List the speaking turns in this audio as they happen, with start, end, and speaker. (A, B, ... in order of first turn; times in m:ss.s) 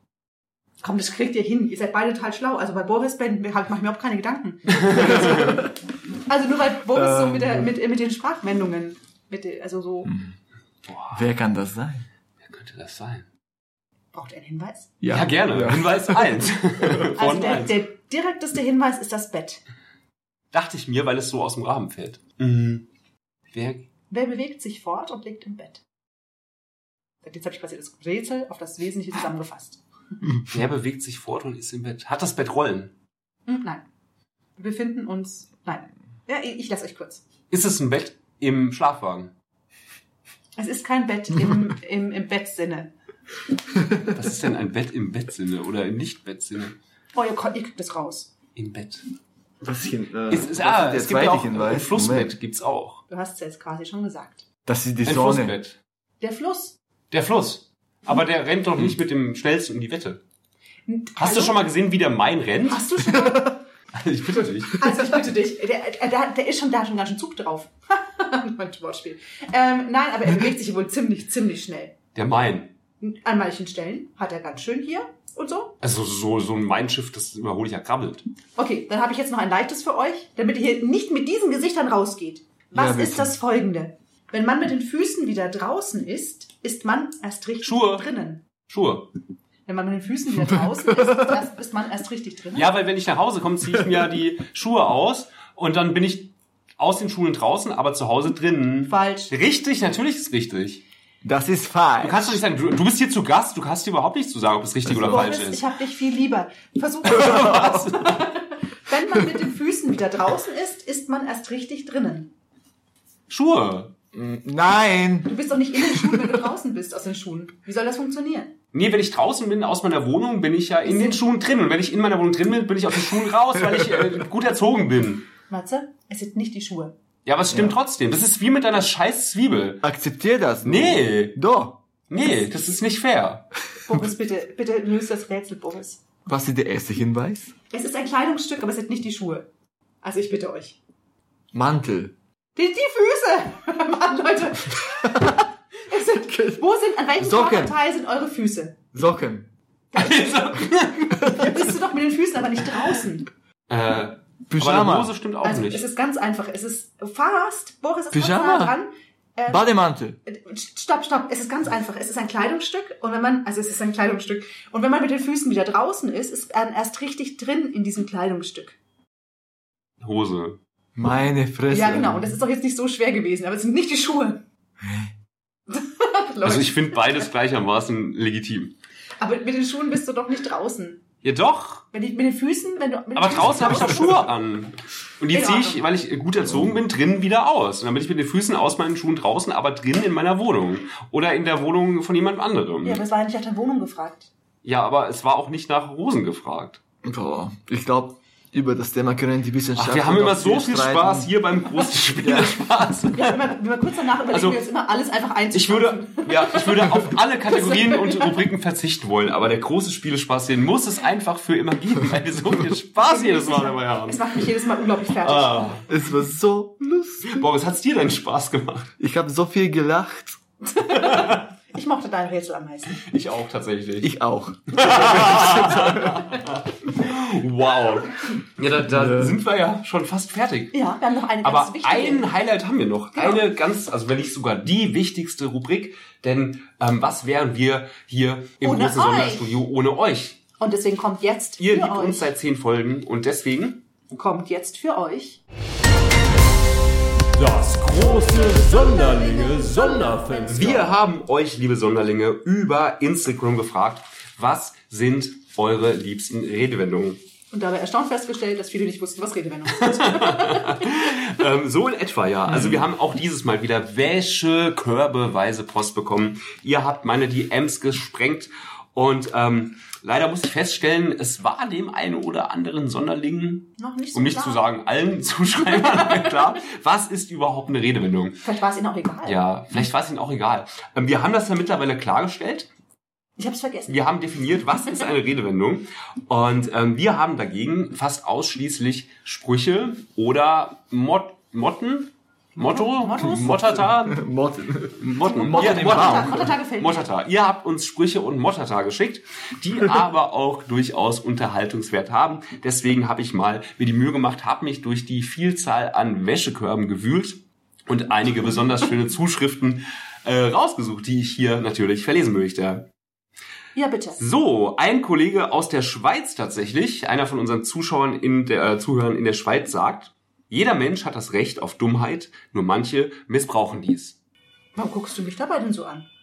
0:00.8-0:05.6 A
0:04.7-0:05.6 B
0:05.3-0:05.5 C
0:06.3-0:10.1 A
0:07.0-0:07.6 C
0:10.9-0:11.2 B
0:11.1-0:12.0 C
0:12.4-0:13.3 B
0:14.1-0:14.9 A
0:15.0-0:16.4 C
0:15.1-0:17.8 B
0:17.2-0:19.6 A
0:20.5-0:22.9 B
0:23.5-0:23.9 B
0:24.1-0:25.8 A
0:27.2-0:29.8 A
0:30.5-0:32.9 B
0:33.5-0:33.8 A
0:34.6-0:37.2 A
0:37.5-0:39.3 B
0:40.6-0:42.9 A
0:44.1-0:46.8 B
0:47.1-0:48.3 A
0:48.6-0:49.0 B
0:49.6-0:52.3 C
0:50.3-0:53.0 B
0:53.1-0:54.4 A
0:54.7-0:55.6 C
0:55.0-0:55.8 B
0:56.2-0:56.8 A
0:57.1-1:00.2 B
1:00.9-1:01.6 A
1:01.2-1:03.0 B
1:02.7-1:03.6 A
1:03.9-1:04.8 B
1:04.8-1:12.0 A
1:12.1-1:12.7 B
1:13.0-1:15.8 A
1:15.8-1:18.3 B
1:18.6-1:28.4 A
1:22.7-1:23.3 C
1:27.6-1:28.1 B
1:28.7-1:29.1 B
1:29.7-1:32.7 A
1:32.6-1:40.8 B
1:38.9-1:39.3 A
1:41.2-1:42.4 C
1:42.0-1:45.6 B
1:44.9-1:45.3 C
1:45.1-1:52.3 A
1:47.0-1:48.1 B
1:47.3-1:47.7 C
1:53.3-1:53.9 B
1:54.1-1:56.3 C
1:55.3-1:58.5 A
1:58.7-2:05.3 B
2:00.8-2:01.2 A
2:05.5-2:07.0 A
2:07.3-2:09.8 B
2:09.8-2:11.8 C
2:10.6-2:11.4 B
2:12.1-2:13.5 B
2:13.9-2:16.0 A
2:16.3-2:17.5 C
2:17.7-2:19.5 A
2:20.0-2:20.8 A
2:21.5-2:22.1 C
2:22.6-2:25.3 A
2:25.0-2:25.4 C
2:25.9-2:28.8 A
2:26.1-2:26.6 C
2:27.2-2:27.8 C
2:28.9-2:29.5 C
2:29.9-2:30.4 A
2:30.0-2:31.7 B
2:31.1-2:33.3 A
2:33.7-2:35.9 B
2:34.5-2:35.1 C
2:35.4-2:39.7 A
2:38.1-2:38.8 C
2:39.5-2:40.2 C
2:40.2-2:48.8 A
2:50.0-2:50.6 B
2:51.0-2:52.3 C
2:51.7-2:54.4 A
2:54.8-2:55.1 C
2:55.7-2:57.2 A
2:56.4-2:58.7 B
2:59.2-3:01.0 A
3:01.2-3:01.9 B
3:01.9-3:04.3 A
3:03.1-3:13.0 B
3:05.3-3:06.0 A
3:06.5-3:06.7 C
3:12.8-3:14.3 A
3:14.6-3:16.8 B
3:17.0-3:21.3 C
3:19.8-3:23.4 B
3:22.2-3:22.6 C
3:23.1-3:28.4 A
3:24.3-3:24.6 B
3:25.5-3:34.6 B
3:33.0-3:35.8 A
3:35.2-3:35.8 B
3:35.9-3:37.5 C
3:37.2-3:38.9 B
3:39.0-3:40.4 C
3:40.7-3:43.0 A
3:41.1-3:41.4 B
3:43.0-3:44.1 B
3:44.0-3:46.4 C
3:44.7-3:50.8 B
3:48.9-3:49.4 C
3:50.7-3:52.3 A
3:51.4-4:00.4 B
3:53.1-3:53.4 A
3:58.6-3:59.6 A
4:00.6-4:02.3 A
4:01.6-4:03.8 B
4:04.1-4:05.4 A
4:07.4-4:17.2 B
4:08.1-4:11.0 A
4:17.5-4:21.0 A
4:19.8-4:38.4 B
4:22.5-4:22.8 C
4:33.8-4:34.6 A
4:38.4-4:39.4 A
4:39.2-4:42.7 B
4:43.4-4:44.0 A
4:43.9-4:54.2 B
4:52.6-4:53.6 A
4:53.3-4:56.5 C
4:55.0-5:12.9 B
4:55.2-4:57.1 A
5:13.8-5:14.2 A
5:14.2-5:24.2 B
5:24.8-5:26.1 A